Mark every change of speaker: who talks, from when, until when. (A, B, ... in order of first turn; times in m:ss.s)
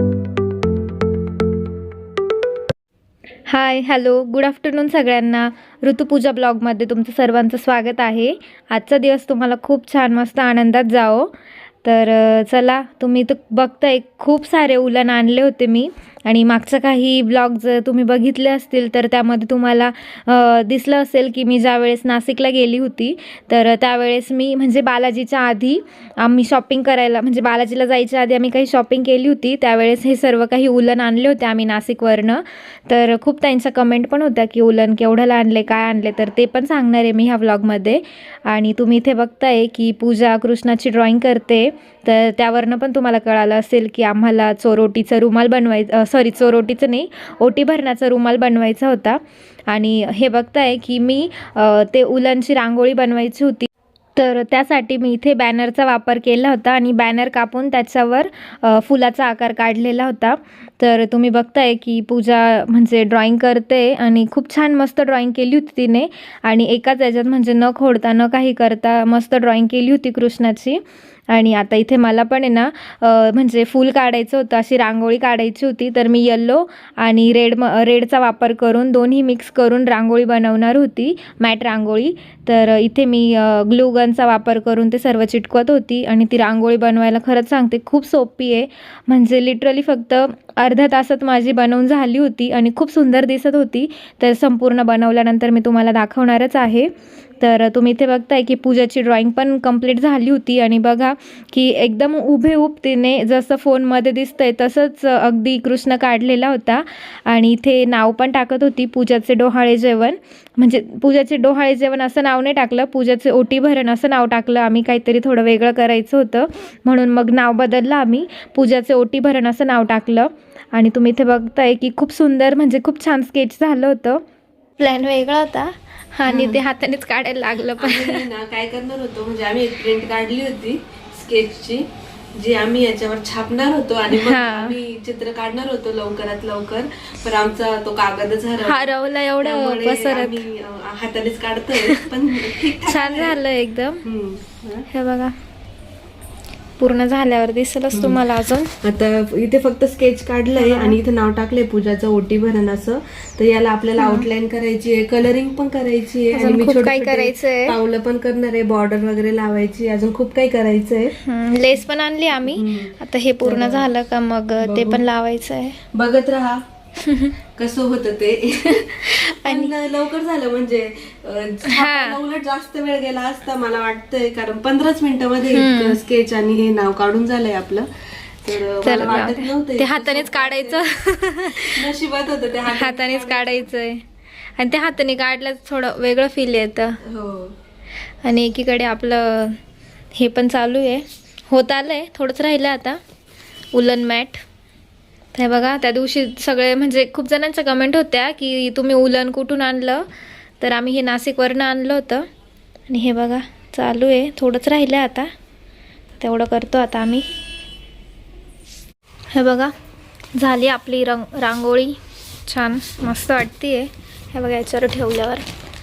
0:03.5-0:11.3 A
0:11.8-2:04.2 A
2:04.8-2:08.2 A
2:06.3-2:06.6 B
2:07.8-2:23.4 B
2:14.1-2:14.8 A
2:18.6-2:20.4 A
2:22.8-2:24.0 A
2:24.0-2:24.9 B
2:24.9-2:25.3 A
2:26.8-2:28.7 A
2:27.9-2:28.2 B
2:28.8-2:41.1 B
2:30.6-2:31.0 A
2:34.0-2:34.3 A
2:36.3-2:37.8 A
2:41.2-2:45.8 A
2:42.5-2:43.9 B
2:44.6-2:45.0 B
2:45.9-2:46.6 B
2:47.0-2:47.4 A
2:47.6-2:57.9 B
2:48.6-2:49.7 A
2:51.7-2:52.2 A
2:55.5-2:56.0 A
2:58.4-3:00.8 B
2:58.8-3:01.8 A
3:01.6-3:03.7 B
3:02.7-3:04.0 A
3:04.6-3:07.0 A
3:07.0-3:07.6 B
3:08.2-3:09.6 A
3:10.2-3:13.0 A
3:13.7-3:14.4 A
3:15.3-3:20.0 A
3:20.6-3:22.3 A
3:22.9-3:25.3 A
3:26.2-3:27.3 A
3:29.3-3:29.7 A
3:30.3-3:35.4 A